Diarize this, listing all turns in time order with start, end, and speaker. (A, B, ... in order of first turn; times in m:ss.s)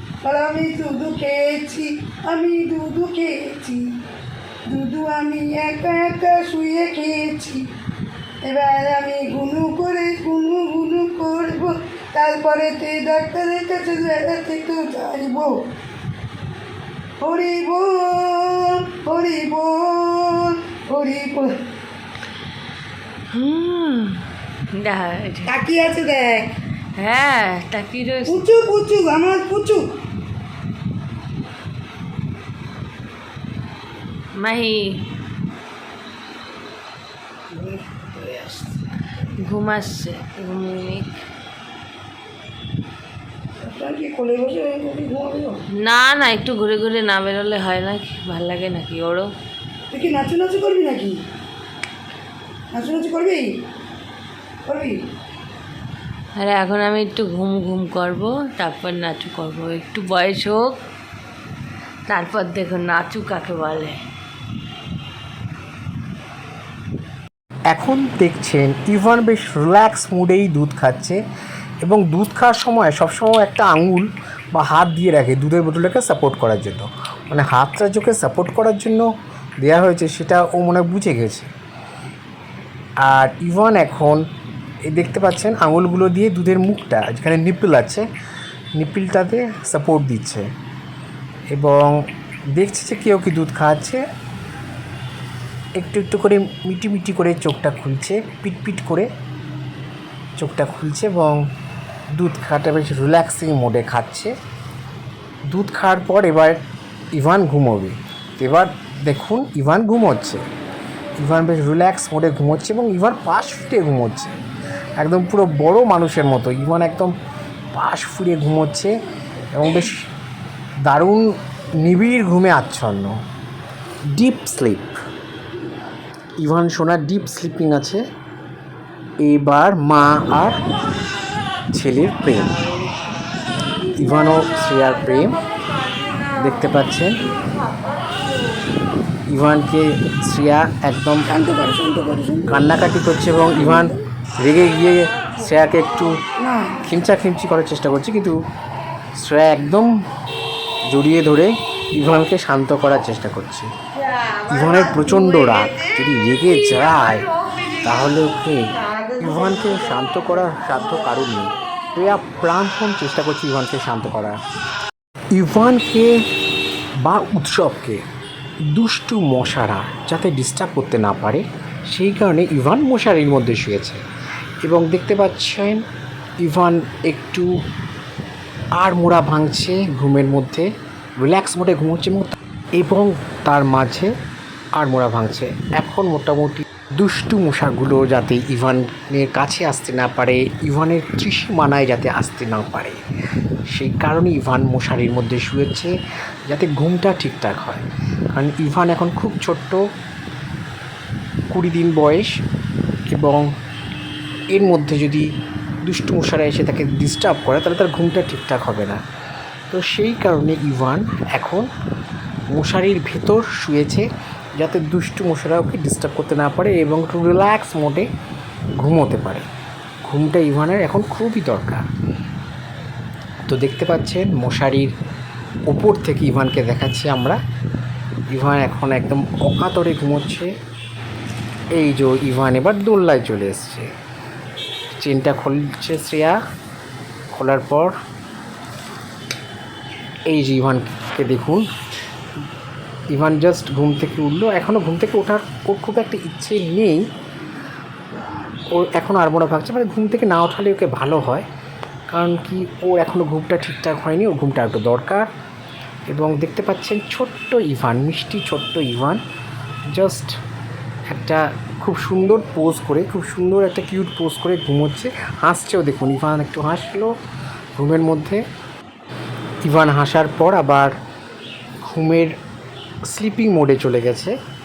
0:00.2-0:03.8 A
0:04.7-0:07.6 A
0:08.4-0:15.5 A
0:17.2-0:21.5 A
0:23.3-0:25.6 B
0:25.4-0:26.5 A
0:27.0-0:28.4 B
0:28.3-0:29.8 A
0:34.3-0:35.0 B
0:37.5-0:38.8 A
0:39.4-0:41.2 B
0:43.6-0:45.6 A
0:45.8-0:49.3 B
0:49.9-0:51.2 A
0:52.7-0:53.5 A
0:54.7-0:55.0 A
0:56.4-1:00.8 B
1:02.1-1:04.0 B
1:07.7-1:11.2 C
1:11.8-1:19.0 C
1:19.6-1:21.5 C
1:23.0-1:24.2 C
1:24.9-1:28.0 C
1:28.8-1:30.4 C
1:31.5-1:31.9 C
1:32.5-1:34.0 C
1:35.8-1:39.1 C
1:40.4-1:41.4 C
1:42.1-1:44.3 C
1:45.5-1:46.6 C
1:47.1-1:50.4 C
1:51.2-1:54.4 C
1:55.0-1:57.1 C
1:57.7-1:58.9 C
1:59.5-2:00.1 C
2:00.8-2:01.2 C
2:01.8-2:03.2 C
2:04.2-2:04.9 C
2:06.4-2:08.0 C
2:09.2-2:10.6 C
2:11.7-2:12.6 C
2:13.9-2:15.4 C
2:16.3-2:17.2 C
2:19.3-2:21.3 C
2:21.3-2:22.6 A
2:22.5-2:26.2 C
2:23.5-2:24.0 A
2:26.4-2:26.8 A
2:26.8-2:28.4 C
2:29.2-2:29.9 C
2:30.9-2:33.7 C
2:34.5-2:44.4 C
2:45.3-2:46.2 C
2:47.0-2:48.0 C
2:48.7-2:54.0 C
2:54.6-2:55.8 C
2:56.4-2:57.5 C
2:58.8-3:00.7 C
3:01.2-3:04.1 C
3:04.8-3:13.0 C
3:13.7-3:15.9 C
3:16.5-3:19.8 C
3:21.5-3:22.4 C
3:23.1-3:23.5 C
3:24.5-3:25.3 C
3:25.8-3:29.0 C
3:29.7-3:31.7 C
3:32.5-3:34.0 C
3:34.6-3:38.1 C
3:38.8-3:39.4 C
3:40.0-3:41.8 C
3:43.5-3:44.9 C
3:45.7-3:47.4 C
3:48.3-3:50.5 C
3:51.7-3:53.9 C
3:55.0-3:56.4 C
3:57.3-3:57.9 C
4:00.3-4:01.6 C
4:03.1-4:07.0 C
4:08.7-4:11.5 C
4:12.1-4:15.3 C
4:16.1-4:19.2 C
4:19.9-4:20.3 C
4:21.1-4:27.1 C
4:27.8-4:28.4 C
4:29.6-4:30.9 C
4:31.8-4:32.3 C
4:33.1-4:34.3 C